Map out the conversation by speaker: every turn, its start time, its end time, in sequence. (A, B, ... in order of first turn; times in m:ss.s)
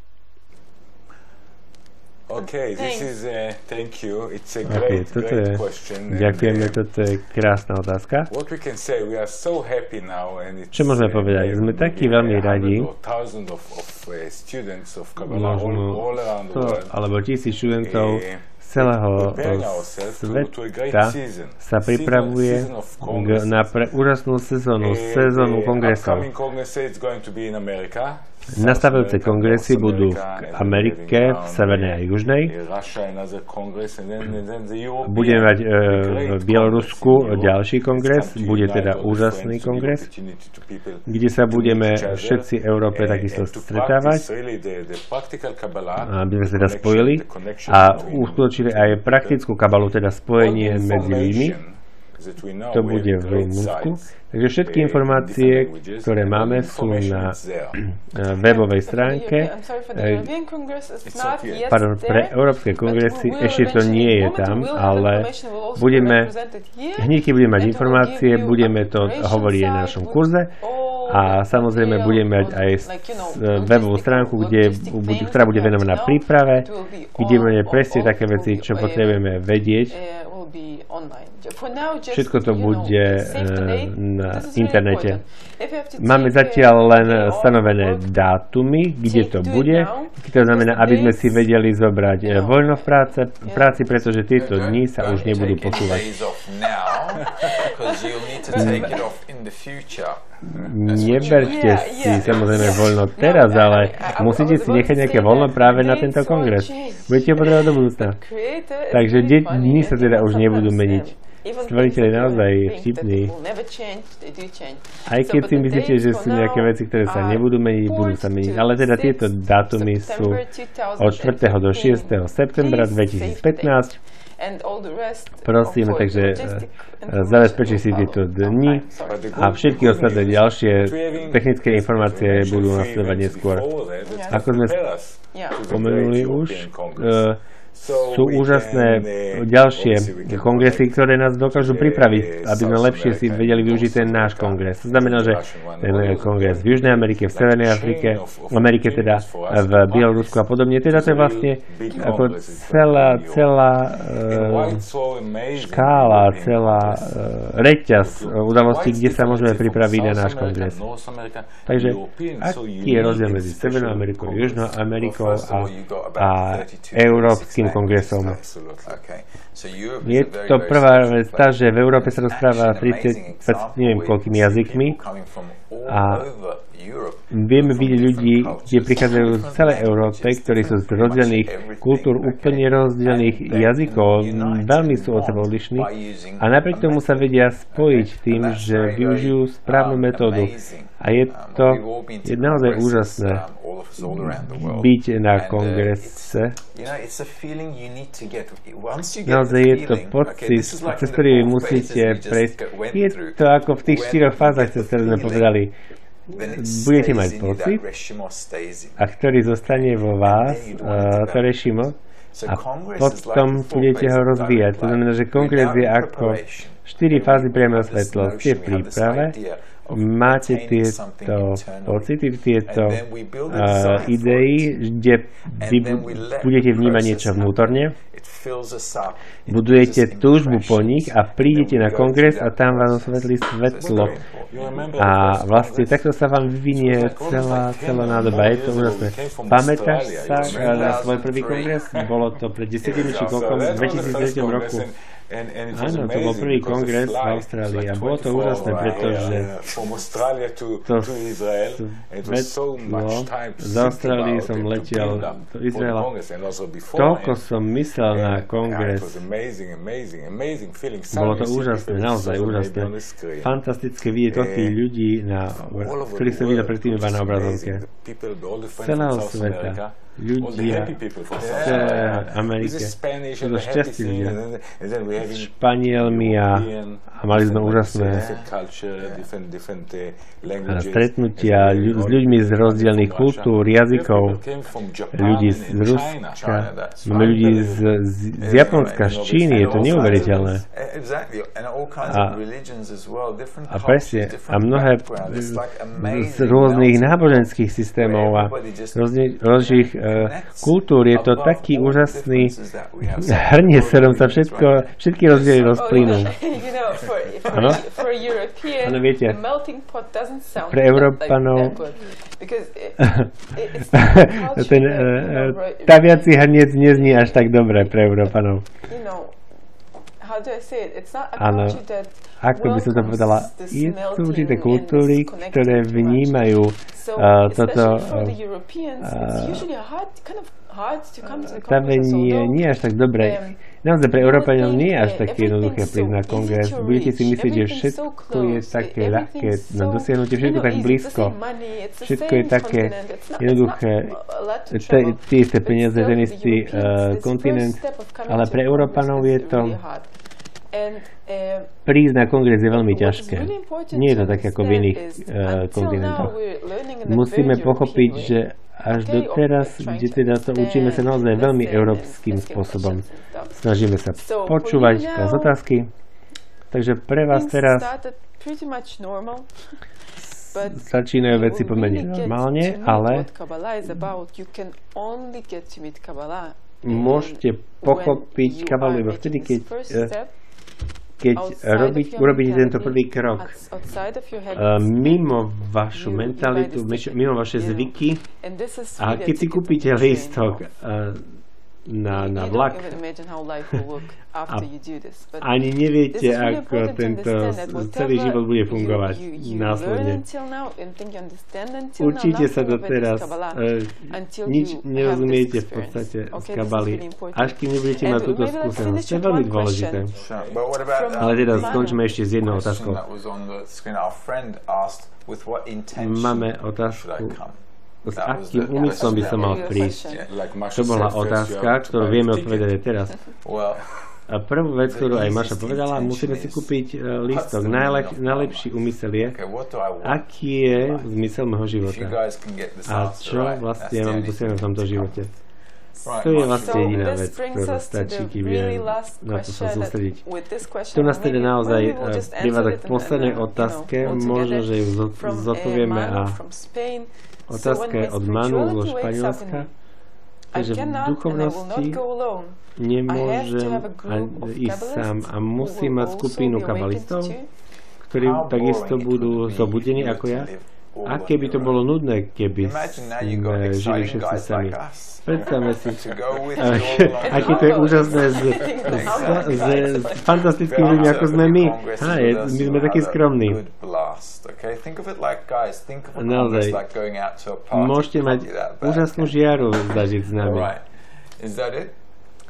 0:02.3-0:06.8 A
0:02.8-0:03.1 B
0:04.6-0:08.3 C
0:08.3-0:17.0 A
0:10.7-0:12.9 C
0:15.2-0:26.3 C
0:17.7-0:23.9 A
0:24.8-0:49.5 A
0:28.5-0:32.5 C
0:35.0-0:40.1 C
0:41.0-0:44.2 C
0:46.0-0:51.6 C
0:50.4-0:54.1 A
0:52.7-1:00.3 C
0:54.6-0:57.8 A
0:58.3-1:19.2 B
1:01.0-1:01.7 A
1:01.7-1:06.3 C
1:07.0-1:10.5 C
1:11.1-1:20.0 C
1:19.9-1:28.1 B
1:22.1-1:25.2 C
1:26.0-1:36.1 C
1:29.0-1:31.5 B
1:32.2-1:33.8 B
1:34.4-1:40.2 D
1:37.1-1:38.9 B
1:38.5-1:38.9 C
1:40.4-1:48.2 C
1:40.6-1:41.7 A
1:40.8-1:41.3 D
1:41.2-2:09.5 B
1:42.1-1:42.8 D
1:48.9-1:51.1 C
1:51.6-1:53.3 C
1:55.0-2:00.4 C
2:01.0-2:04.0 C
2:05.4-2:13.6 C
2:09.0-2:33.5 A
2:14.1-2:14.4 B
2:14.3-2:14.8 C
2:15.3-2:15.6 B
2:15.7-2:34.8 C
2:34.3-2:37.2 A
2:35.5-2:40.8 C
2:37.9-2:44.8 A
2:41.6-2:48.4 C
2:45.0-3:25.6 D
2:48.1-2:49.0 A
2:50.0-2:55.0 C
2:55.8-2:56.3 C
2:57.3-3:13.4 C
3:14.0-3:16.6 C
3:19.2-3:25.7 C
3:26.3-3:29.1 D
3:26.3-3:27.8 C
3:29.0-3:39.4 C
3:29.7-3:31.6 D
3:32.3-3:42.1 D
3:39.9-3:48.0 C
3:42.7-3:44.7 D
3:45.5-3:54.9 D
3:49.5-3:54.2 C
3:53.8-3:56.1 A
3:55.0-4:04.9 C
3:56.7-4:01.2 A
4:00.4-4:01.8 D
4:02.8-4:17.4 A
4:02.9-4:04.0 D
4:05.7-4:09.5 C
4:08.6-4:09.5 D
4:10.8-4:16.1 C
4:16.9-4:19.2 C
4:18.1-4:23.6 A
4:21.1-4:22.9 C
4:23.4-4:27.8 C
4:24.3-4:24.8 A
4:25.6-4:46.4 A
4:28.8-4:31.0 C
4:31.3-4:32.4 D
4:31.5-4:34.4 C
4:35.2-4:38.3 C
4:38.1-4:39.2 D
4:40.6-4:44.4 C
4:45.1-4:50.6 C
4:46.3-4:47.6 D
4:47.0-4:50.6 A
4:48.4-5:06.7 D
4:52.0-4:52.4 C
4:53.7-5:02.5 C
5:03.2-5:06.3 C
5:05.7-5:17.9 B
5:07.5-5:07.9 D
5:07.5-5:07.8 C
5:08.8-5:09.4 C
5:10.6-5:11.8 C
5:13.0-5:13.3 C
5:13.9-5:18.6 C
5:18.8-5:19.3 B
5:20.2-5:50.1 B
5:21.4-5:21.8 C
5:22.4-5:28.4 C
5:29.0-5:29.6 C
5:31.3-5:41.4 C
5:42.0-5:44.2 C
5:44.7-5:49.8 C
5:50.7-5:51.7 B
5:51.8-5:56.3 C
5:52.7-6:03.6 B
5:57.0-6:05.9 C
6:04.2-6:05.5 B
6:06.7-6:07.9 C
6:07.3-6:09.5 B
6:10.5-6:20.3 B
6:10.6-6:13.3 C
6:16.8-6:20.1 C
6:21.2-6:23.6 C
6:21.3-6:25.4 B
6:24.5-6:28.2 C
6:25.9-6:30.6 B
6:29.0-6:31.3 C
6:31.9-6:32.9 C
6:32.1-6:50.2 B
6:35.4-6:40.2 C
6:42.0-6:50.1 C
6:50.1-7:00.3 D
6:50.3-6:50.7 A
6:50.9-6:52.0 B
6:51.2-6:53.0 C
6:56.0-6:57.4 C
6:58.0-7:00.0 C
6:58.5-7:00.3 B
7:00.3-7:02.8 A
7:00.7-7:03.2 C
7:03.4-7:03.8 D
7:04.3-7:09.4 C
7:04.8-7:06.7 D
7:07.2-7:11.1 D
7:10.0-7:12.2 C
7:11.8-7:15.3 D
7:12.8-7:15.3 C
7:16.0-7:17.0 D
7:16.1-7:20.2 C
7:16.3-7:29.7 B
7:20.9-7:26.4 C
7:27.5-7:29.7 C
7:30.5-7:32.0 C
7:30.5-7:37.5 B
7:32.8-7:37.4 C
7:38.0-7:40.5 C
7:38.2-7:41.8 D
7:41.0-7:53.6 C
7:42.6-7:59.4 D
7:45.4-7:45.8 B
7:46.6-7:50.2 B
7:56.1-7:56.8 C
7:57.7-8:00.7 C
8:00.4-8:00.8 D
8:01.4-8:02.0 D